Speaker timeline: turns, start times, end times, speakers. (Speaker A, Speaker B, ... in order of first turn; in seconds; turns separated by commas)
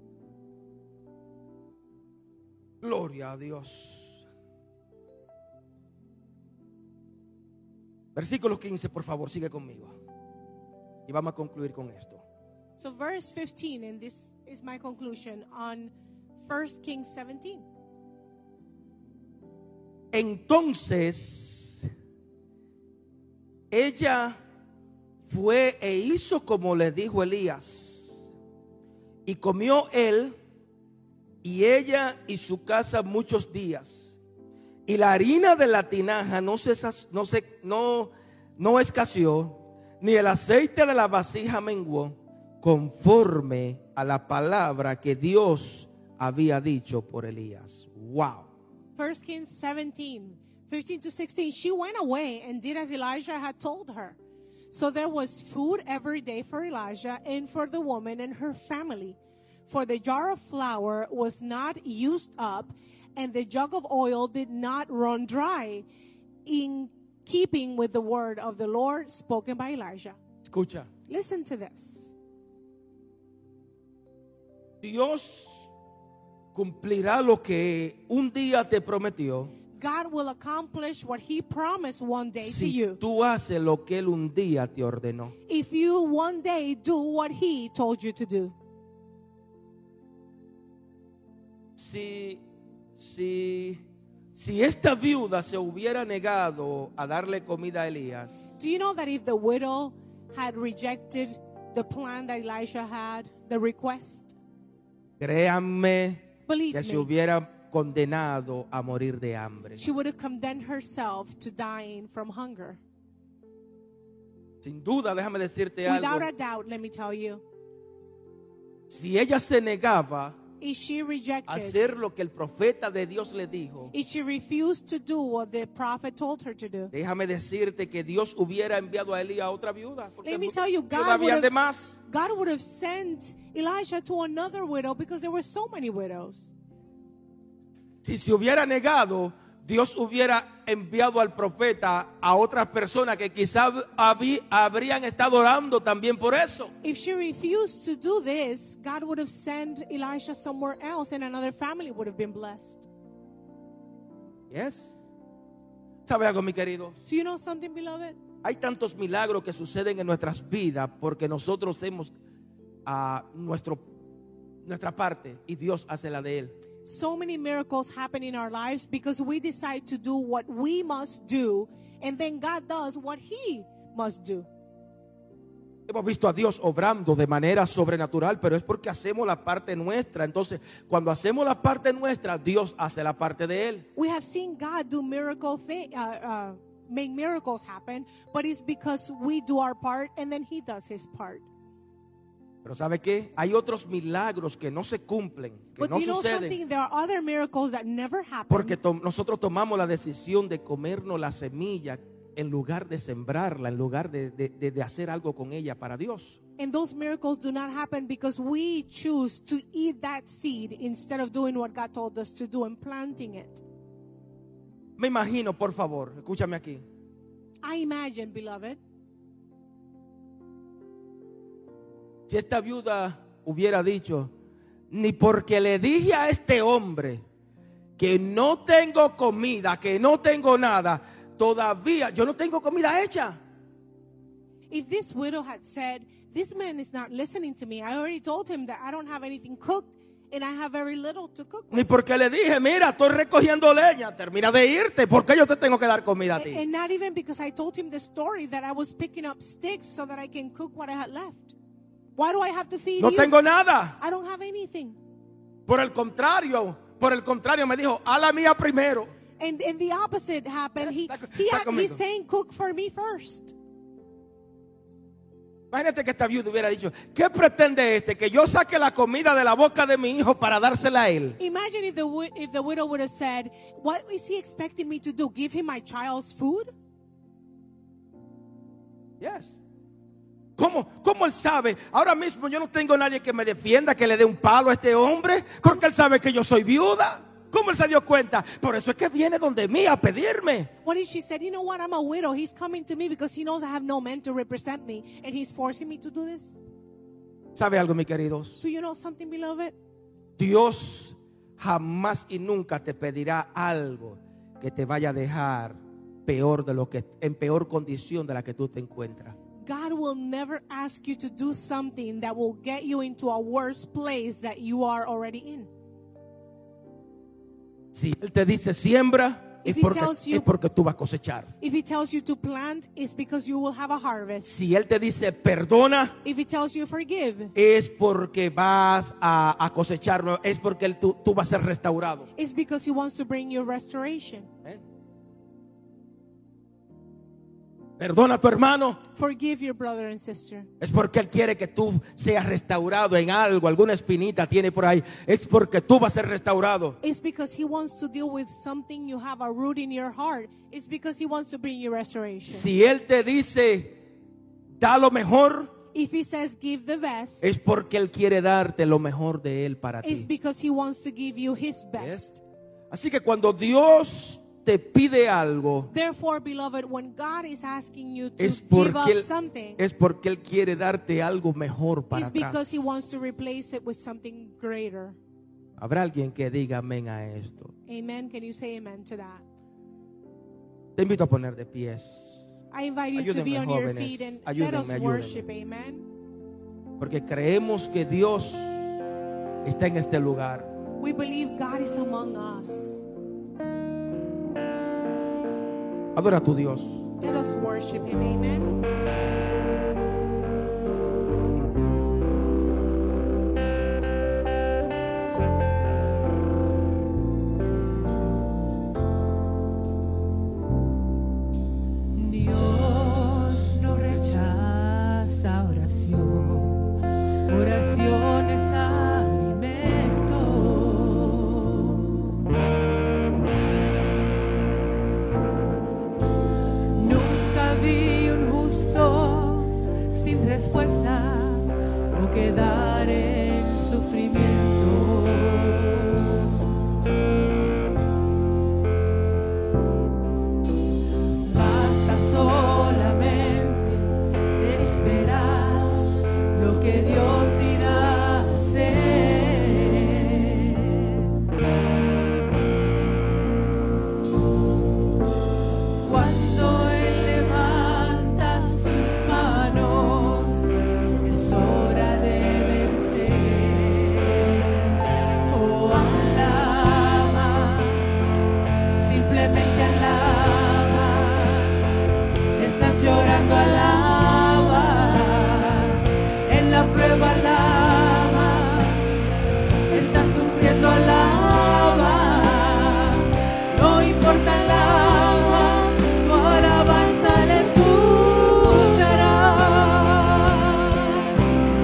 Speaker A: 2.8-4.1, Speaker A: 8.1-9.9, Speaker A: 11.1-12.2, Speaker B: 12.8-15.9, Speaker B: 16.4-17.6, Speaker A: 20.1-21.9, Speaker A: 23.7-24.4, Speaker A: 25.3-28.2, Speaker A: 29.2-30.3, Speaker A: 31.4-34.1, Speaker A: 34.9-48.5, Speaker B: 49.0-54.2, Speaker B: 54.7-65.8, Speaker B: 66.4-70.2, Speaker A: 70.4-70.9, Speaker B: 71.1-72.1, Speaker A: 74.8-75.7, Speaker A: 76.5-79.5, Speaker B: 79.7-83.0, Speaker A: 82.4-85.3, Speaker B: 85.5-88.5, Speaker A: 91.8-92.4, Speaker A: 93.0-93.8, Speaker A: 94.3-98.5, Speaker B: 98.6-104.3, Speaker A: 105.2-109.8, Speaker B: 106.5-107.1, Speaker B: 109.8-112.8, Speaker A: 114.6-116.3, Speaker B: 115.8-117.4, Speaker A: 118.9-120.3, Speaker B: 120.6-121.8, Speaker A: 121.5-123.9, Speaker B: 123.9-126.9, Speaker A: 126.9-132.0, Speaker B: 130.2-131.5, Speaker B: 132.1-136.5, Speaker A: 138.0-146.7, Speaker B: 146.8-152.9, Speaker A: 154.5-155.0, Speaker A: 156.1-157.0, Speaker B: 157.1-158.2, Speaker A: 158.4-162.1, Speaker A: 162.8-163.8, Speaker A: 164.7-166.5, Speaker B: 166.8-174.5, Speaker A: 175.9-183.8, Speaker B: 183.9-191.4, Speaker A: 192.6-196.6, Speaker B: 195.8-198.8, Speaker A: 198.5-206.4, Speaker B: 206.6-213.6, Speaker A: 215.0-216.8, Speaker B: 217.6-218.8, Speaker A: 222.3-224.3, Speaker A: 224.9-227.2, Speaker A: 228.0-233.4, Speaker B: 234.7-241.9, Speaker A: 241.7-246.6, Speaker B: 246.3-251.6, Speaker B: 252.2-253.4, Speaker A: 253.0-254.0, Speaker B: 254.0-255.0, Speaker A: 255.7-259.1, Speaker B: 259.4-263.5, Speaker A: 260.9-262.0, Speaker A: 265.7-271.4, Speaker B: 271.4-276.7, Speaker A: 279.2-279.6, Speaker A: 280.6-290.7, Speaker B: 290.8-296.6, Speaker A: 297.5-298.6, Speaker B: 298.6-299.7, Speaker A: 300.4-309.3, Speaker B: 309.6-315.7, Speaker A: 317.9-321.5, Speaker B: 319.6-320.5, Speaker B: 321.6-324.5, Speaker A: 324.4-326.1, Speaker B: 326.2-327.5, Speaker A: 327.5-332.3, Speaker B: 332.4-334.5, Speaker A: 338.0-339.0, Speaker B: 339.1-340.7, Speaker A: 340.8-347.0, Speaker B: 347.0-352.7, Speaker A: 352.4-354.0, Speaker A: 354.8-355.7, Speaker B: 355.9-357.4, Speaker A: 357.4-360.3, Speaker B: 360.0-362.4, Speaker A: 362.0-362.3, Speaker A: 362.9-365.9, Speaker B: 365.9-369.8, Speaker A: 368.4-369.3, Speaker A: 369.8-373.0, Speaker B: 372.1-375.2, Speaker A: 375.8-377.7, Speaker B: 377.9-379.4, Speaker A: 381.0-382.4, Speaker B: 382.7-386.1, Speaker A: 383.1-385.4, Speaker A: 387.0-388.8, Speaker A: 389.6-390.7, Speaker B: 391.0-393.0, Speaker A: 396.1-397.0, Speaker B: 397.2-398.7, Speaker C: 412.1-416.9, Speaker C: 417.5-422.2, Speaker C: 426.9-436.7, Speaker C: 441.4-444.0, Speaker C: 444.6-451.2, Speaker C: 456.0-460.6, Speaker C: 461.2-468.2, Speaker C: 469.0-471.8, Speaker C: 472.5-479.2, Speaker C: 479.9-491.3